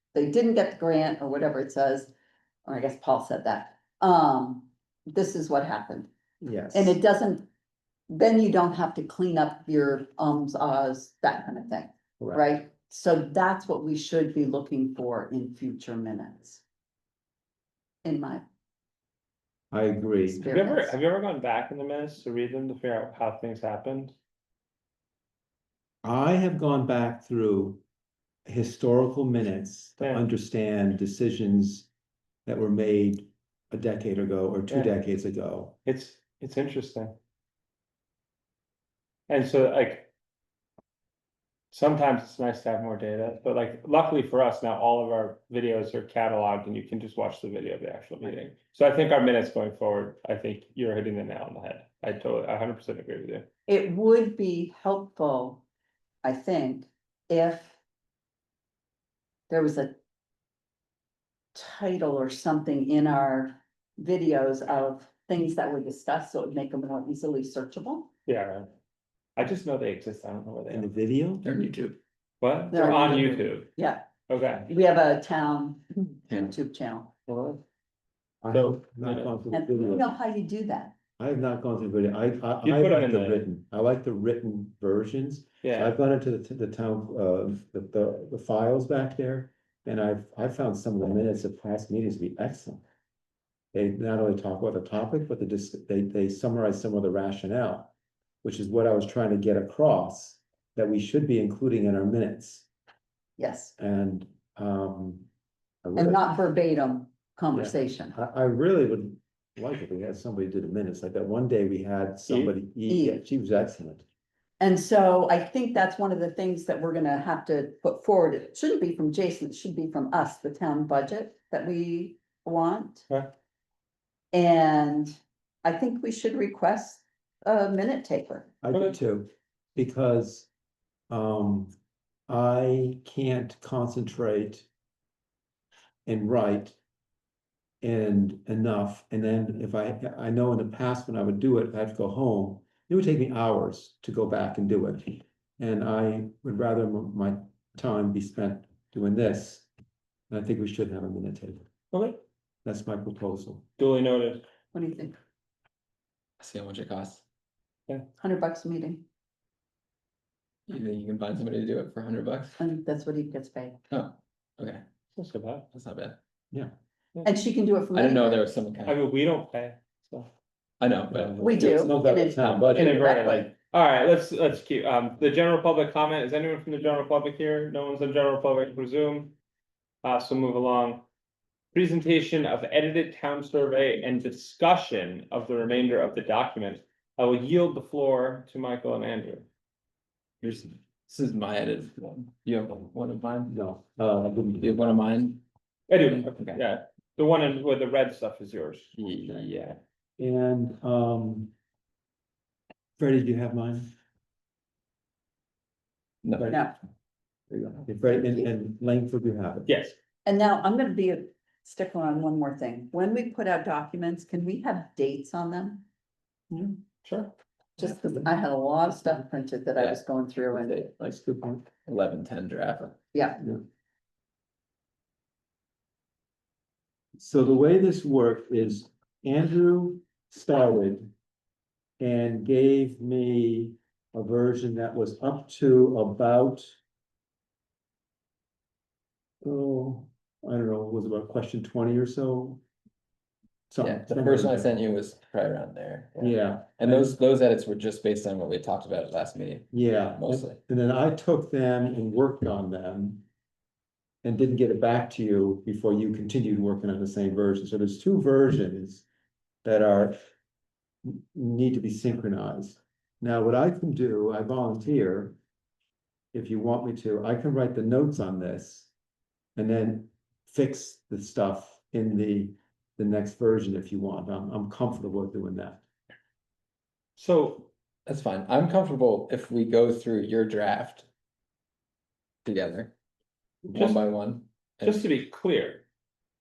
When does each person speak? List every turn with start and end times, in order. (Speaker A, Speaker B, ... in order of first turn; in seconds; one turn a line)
Speaker A: 0.1-2.1
Speaker A: 2.6-6.1
Speaker B: 6.4-7.0
Speaker A: 6.7-7.5
Speaker A: 8.1-16.6
Speaker B: 12.2-12.4
Speaker A: 18.0-18.4
Speaker B: 19.7-20.4
Speaker A: 20.3-20.9
Speaker C: 20.4-24.1
Speaker B: 26.0-27.8
Speaker B: 28.4-31.9
Speaker C: 30.0-30.2
Speaker B: 32.5-35.8
Speaker C: 35.8-37.1
Speaker C: 39.3-40.1
Speaker C: 41.7-53.5
Speaker A: 53.7-55.6
Speaker A: 56.2-57.8
Speaker A: 59.5-59.9
Speaker A: 61.5-68.1
Speaker C: 68.3-68.7
Speaker C: 69.4-70.9
Speaker B: 70.7-71.5
Speaker D: 71.4-72.0
Speaker C: 72.4-73.7
Speaker A: 72.7-74.1
Speaker C: 74.3-74.7
Speaker A: 74.7-77.1
Speaker D: 76.3-76.5
Speaker C: 77.3-77.6
Speaker B: 78.4-80.1
Speaker C: 78.5-79.3
Speaker A: 79.5-80.9
Speaker B: 81.2-92.8
Speaker C: 82.6-83.5
Speaker C: 85.6-85.9
Speaker B: 93.7-97.9
Speaker B: 98.4-102.7
Speaker A: 103.4-103.7
Speaker B: 103.8-105.3
Speaker B: 105.8-106.3
Speaker A: 106.0-108.2
Speaker B: 107.5-114.0
Speaker C: 112.3-112.5
Speaker A: 112.9-113.2
Speaker A: 114.6-123.1
Speaker A: 124.3-128.5
Speaker B: 128.6-130.5
Speaker C: 128.7-129.0
Speaker B: 131.1-131.7
Speaker B: 132.3-134.7
Speaker B: 136.1-136.8
Speaker B: 137.8-149.7
Speaker B: 150.3-151.7
Speaker C: 151.9-152.2
Speaker B: 152.6-153.7
Speaker C: 153.8-154.4
Speaker A: 154.7-155.2
Speaker D: 156.4-157.2
Speaker A: 158.2-159.0
Speaker D: 160.7-162.6
Speaker A: 162.6-163.8
Speaker D: 163.9-164.8
Speaker C: 165.2-165.7
Speaker D: 165.7-166.2
Speaker A: 167.2-168.4
Speaker D: 167.9-169.0
Speaker C: 168.8-170.3
Speaker D: 170.8-172.7
Speaker B: 171.1-173.4
Speaker A: 171.4-173.5
Speaker C: 172.7-179.3
Speaker C: 180.0-181.0
Speaker C: 181.7-189.5
Speaker D: 190.4-193.5
Speaker B: 193.5-194.9
Speaker D: 194.6-195.4
Speaker C: 195.9-199.8
Speaker D: 196.1-196.6
Speaker D: 199.0-199.4
Speaker B: 200.2-201.5
Speaker B: 203.0-203.9
Speaker D: 206.2-206.5
Speaker B: 207.5-209.7
Speaker A: 208.2-208.5
Speaker C: 209.7-209.9
Speaker A: 210.2-215.8
Speaker C: 216.5-217.3
Speaker A: 217.8-220.8
Speaker D: 219.8-223.0
Speaker B: 221.1-221.6
Speaker A: 223.1-223.4
Speaker B: 227.2-231.1
Speaker B: 232.0-236.8
Speaker B: 239.4-242.6
Speaker B: 243.7-244.7
Speaker D: 243.8-250.6
Speaker B: 246.2-247.2
Speaker B: 249.7-253.2
Speaker B: 254.2-259.1
Speaker B: 259.6-260.1
Speaker B: 261.0-265.4
Speaker B: 266.3-268.9
Speaker B: 269.6-275.8
Speaker C: 277.2-277.7
Speaker D: 278.1-281.1
Speaker D: 282.4-282.9
Speaker C: 283.7-284.0
Speaker D: 283.8-285.1
Speaker C: 284.8-285.8